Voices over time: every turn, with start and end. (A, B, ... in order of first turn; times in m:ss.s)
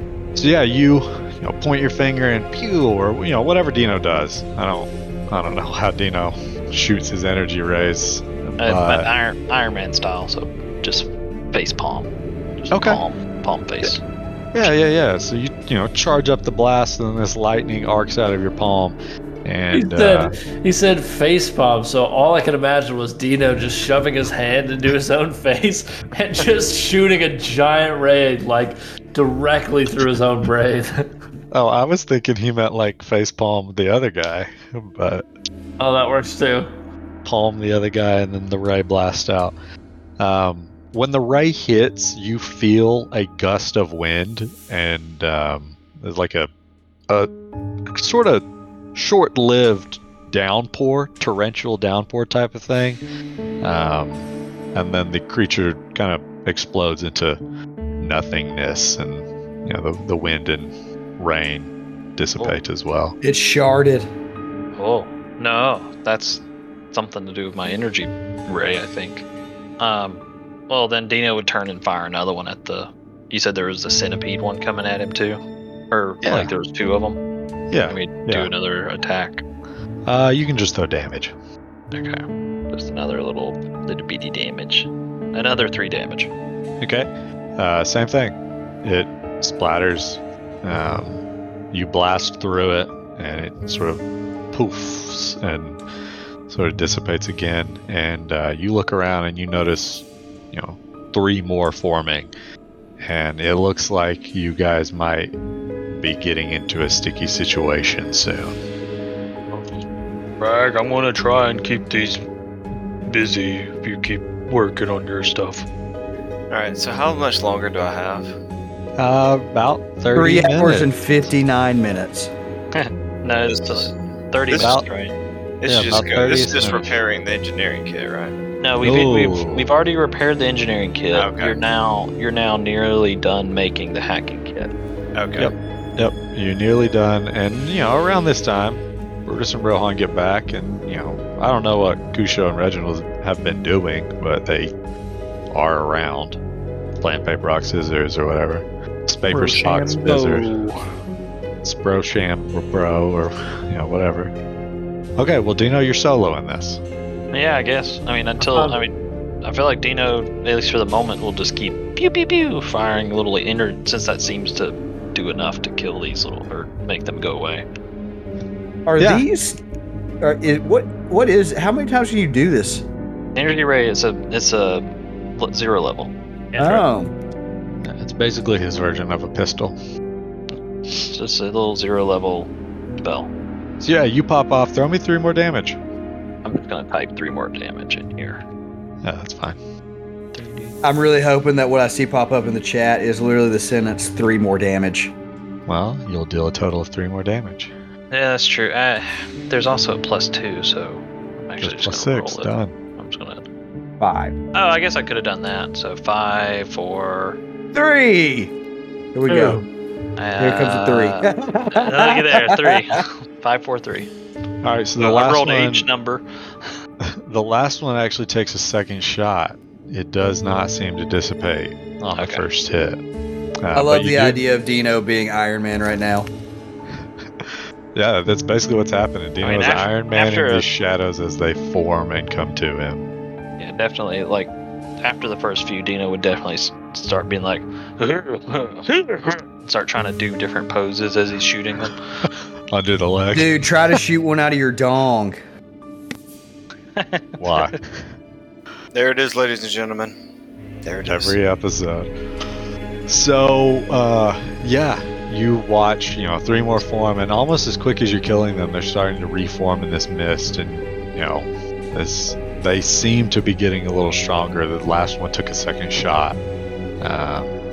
0:00.3-0:09.1 A
0:08.6-0:14.0 B
0:12.7-0:13.0 A
0:14.5-0:20.3 A
0:19.7-0:31.1 C
0:31.5-0:35.2 A
0:35.8-0:36.7 C
0:37.2-0:39.5 A
0:40.2-0:46.5 A
0:47.9-0:48.4 A
0:48.9-0:53.0 A
0:53.6-0:57.4 A
0:58.0-1:03.2 A
1:03.2-1:04.1 D
1:04.8-1:09.2 B
1:09.8-1:17.2 B
1:16.2-1:16.5 A
1:17.7-1:18.5 A
1:17.8-1:19.4 B
1:20.0-1:21.3 A
1:21.9-1:26.3 B
1:26.8-1:34.0 A
1:34.5-1:35.8 A
1:36.5-1:42.3 A
1:43.0-1:45.3 A
1:45.9-1:48.6 A
1:49.5-1:49.8 E
1:50.4-1:52.2 E
1:53.0-1:55.7 E
1:56.5-1:58.3 F
1:59.0-2:00.9 A
2:00.1-2:02.3 D
2:02.7-2:05.1 B
2:03.5-2:03.9 F
2:04.5-2:04.7 F
2:04.6-2:04.8 A
2:05.6-2:08.3 F
2:05.6-2:07.0 A
2:08.6-2:14.7 B
2:08.8-2:09.7 A
2:11.1-2:11.6 F
2:15.1-2:15.5 F
2:15.4-2:24.7 A
2:25.5-2:26.4 A
2:27.0-2:30.5 A
2:31.6-2:34.3 A
2:35.2-2:36.8 A
2:37.3-2:47.6 B
2:38.4-2:38.8 C
2:48.8-2:49.6 D
2:49.0-2:49.2 A
2:50.2-2:52.8 D
2:53.3-2:56.1 B
2:56.5-2:56.8 C
2:56.6-2:57.1 D
2:57.8-2:59.8 A
3:00.9-3:03.3 B
3:03.8-3:05.8 A
3:06.4-3:08.4 B
3:09.0-3:09.6 A
3:10.3-3:10.7 B
3:10.8-3:15.1 D
3:15.7-3:17.7 A
3:18.1-3:23.4 B
3:21.6-3:22.7 A
3:24.0-3:24.4 D
3:24.5-3:27.4 B
3:27.7-3:28.5 D
3:29.1-3:29.6 D
3:29.3-3:29.6 C
3:30.2-3:34.1 B
3:30.4-3:32.8 D
3:34.6-3:35.9 A
3:35.0-3:36.2 B
3:37.0-3:43.0 A
3:42.1-3:42.4 B
3:43.6-3:44.4 A
3:43.7-3:46.3 D
3:47.4-3:53.1 A
3:49.4-3:50.7 B
3:53.6-3:57.7 B
3:58.0-3:59.4 E
3:59.6-4:02.0 B
4:02.7-4:03.6 A
4:03.3-4:05.4 D
4:07.0-4:07.8 B
4:07.4-4:08.0 A
4:08.9-4:10.1 F
4:10.8-4:11.4 F
4:11.1-4:12.1 A
4:13.1-4:26.4 A
4:27.0-4:27.6 A